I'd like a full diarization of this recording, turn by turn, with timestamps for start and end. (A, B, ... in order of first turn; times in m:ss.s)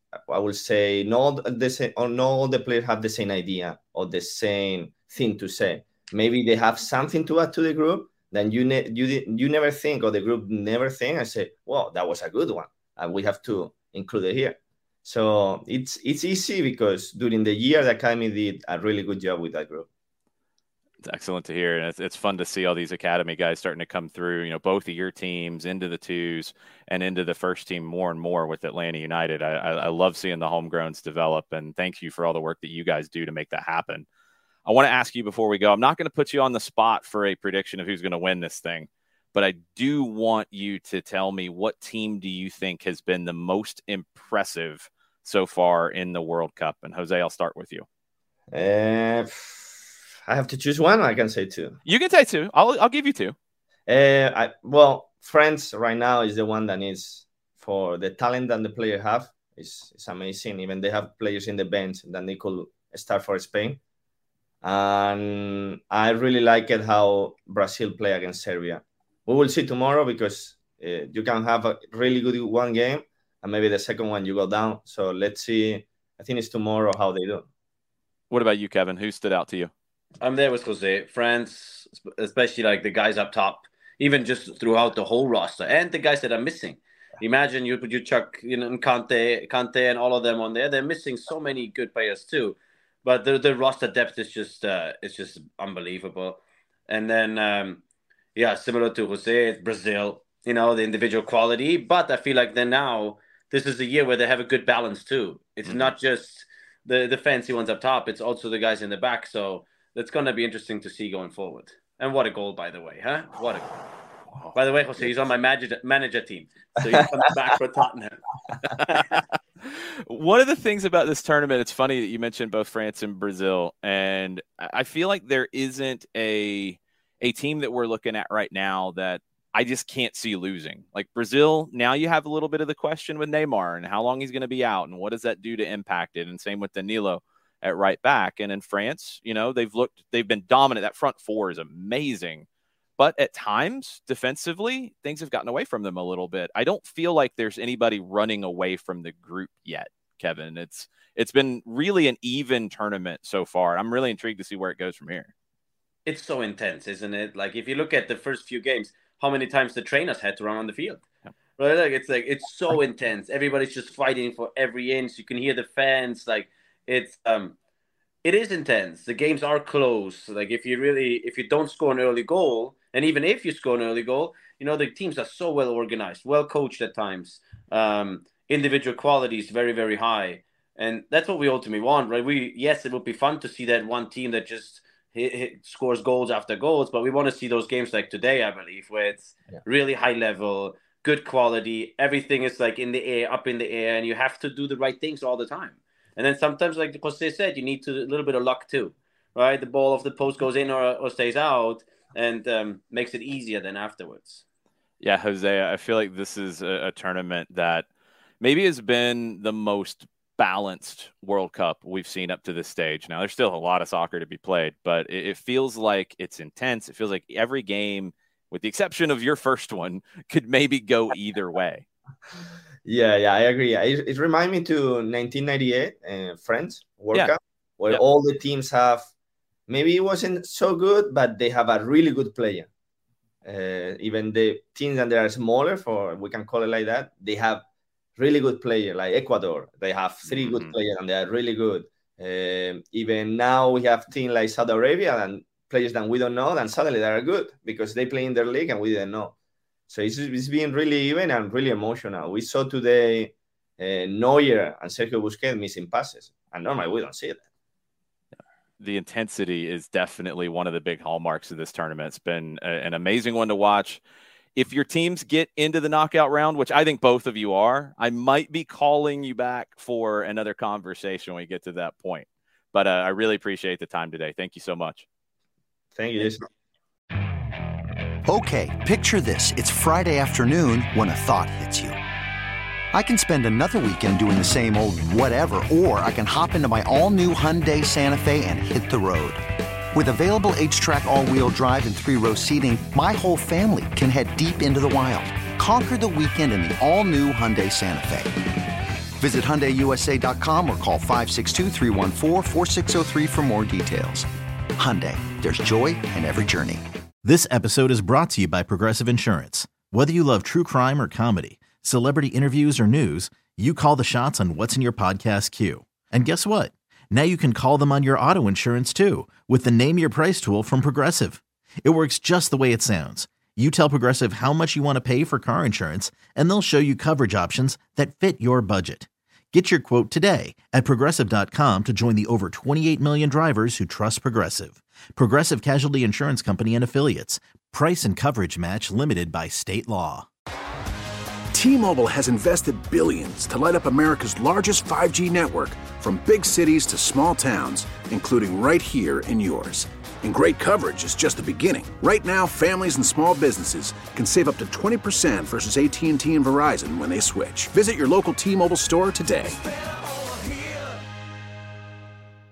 0:00.3-0:19.9 A
0:21.0-0:34.1 B
0:34.6-0:47.8 B
0:48.5-0:51.8 A
0:51.9-0:53.4 B
0:53.9-1:03.8 A
1:04.6-1:17.5 A
1:18.3-1:19.7 B
1:20.2-1:37.8 C
1:38.4-1:53.7 C
1:45.6-1:45.9 B
1:54.6-1:59.0 C
2:00.0-2:22.4 B
2:23.0-2:35.3 B
2:36.1-2:41.0 C
2:41.6-2:47.6 C
2:48.2-3:24.4 C
3:25.0-3:27.9 B
3:28.4-3:41.8 B
3:42.8-3:49.1 A
3:49.7-3:52.7 A
3:53.4-3:57.6 A
3:58.2-4:09.3 A
4:00.2-4:00.7 B
4:09.9-4:17.4 A
4:18.8-4:24.0 B
4:24.6-4:35.1 B
4:36.0-4:36.4 A
4:38.3-4:42.0 D
4:42.9-4:49.4 D
4:50.0-4:58.3 D
4:59.2-5:04.2 D
5:04.8-5:06.8 D
5:07.2-5:40.3 E
5:41.5-5:59.6 F